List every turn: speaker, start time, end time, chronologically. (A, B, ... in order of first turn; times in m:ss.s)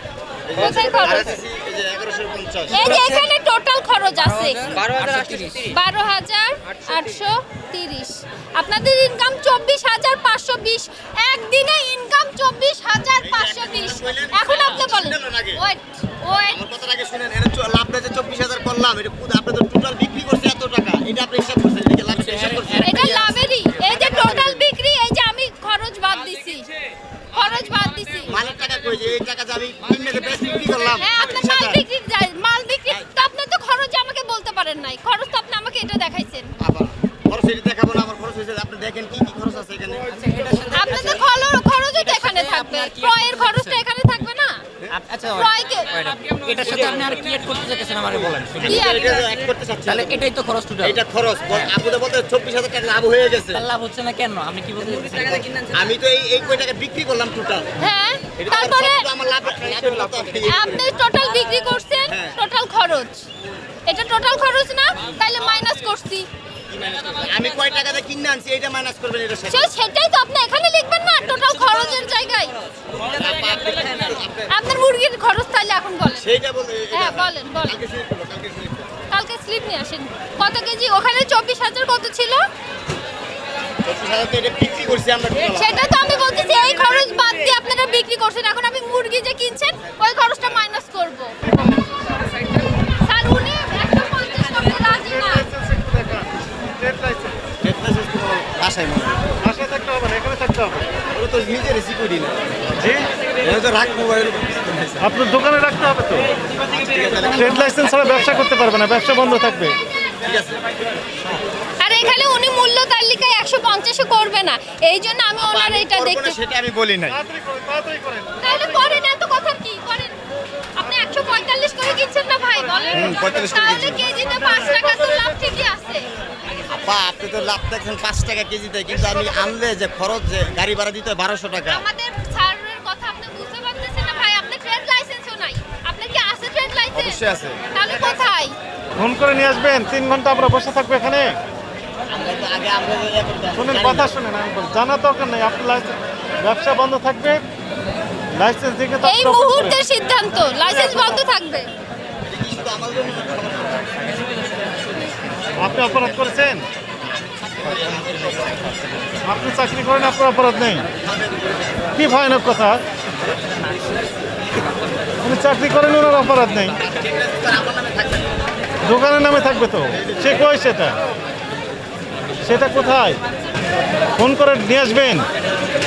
0:00.5-0:02.9 A
0:00.6-0:01.4 B
0:02.7-0:03.3 C
0:02.7-0:04.7 B
0:04.1-0:05.8 C
0:05.0-0:05.4 A
0:05.6-0:16.6 B
0:13.2-0:15.6 A
0:16.5-0:23.2 A
0:22.2-0:23.9 C
0:22.8-0:26.7 B
0:23.8-0:24.7 A
0:27.3-0:28.3 B
0:28.3-0:31.8 A
0:31.0-0:36.5 B
0:36.6-0:40.1 A
0:40.1-0:41.3 C
0:40.7-0:44.6 B
0:41.9-0:43.8 C
0:44.9-0:48.8 C
0:45.4-0:45.9 B
0:48.6-0:50.2 A
0:48.6-0:49.2 B
0:49.8-0:51.7 C
0:50.8-0:53.6 A
0:53.5-0:55.9 C
0:55.2-0:57.7 A
0:57.8-0:59.1 B
0:58.4-1:00.9 A
1:00.0-1:00.4 C
1:00.4-1:03.2 B
1:02.0-1:02.4 A
1:03.8-1:06.2 B
1:06.7-1:09.7 A
1:09.5-1:12.5 B
1:11.2-1:14.2 C
1:13.0-1:14.5 A
1:14.5-1:16.3 B
1:16.2-1:18.9 A
1:16.9-1:17.8 B
1:19.1-1:22.4 B
1:23.8-1:25.9 A
1:25.5-1:31.3 B
1:33.0-1:35.5 B
1:35.0-1:37.4 D
1:37.6-1:39.3 A
1:39.4-1:40.9 D
1:41.1-1:42.4 A
1:42.7-1:43.0 D
1:43.4-1:45.1 A
1:45.0-1:46.3 D
1:46.6-1:47.6 A
1:47.3-1:49.8 D
1:50.2-1:51.4 A
1:51.8-1:56.4 B
1:55.4-1:57.2 A
1:57.1-1:58.9 D
1:58.4-2:00.1 B
2:00.8-2:06.0 B
2:02.9-2:04.0 A
2:04.7-2:05.0 D
2:06.6-2:11.8 A
2:11.6-2:17.2 B
2:16.9-2:17.6 A
2:17.7-2:18.5 B
2:19.0-2:21.4 D
2:22.1-2:24.1 A
2:23.6-2:27.4 D
2:28.3-2:29.8 D
2:29.0-2:31.7 B
2:30.6-2:31.2 D
2:32.2-2:33.8 A
2:35.6-2:36.6 D
2:37.2-2:38.9 A
2:39.2-2:40.9 D
2:41.0-2:41.9 A
2:41.9-2:42.8 D
2:45.2-2:46.8 D
2:46.7-2:48.4 A
2:48.8-2:51.0 D
2:49.9-2:50.4 A
2:52.4-2:53.2 D
2:54.2-2:55.3 D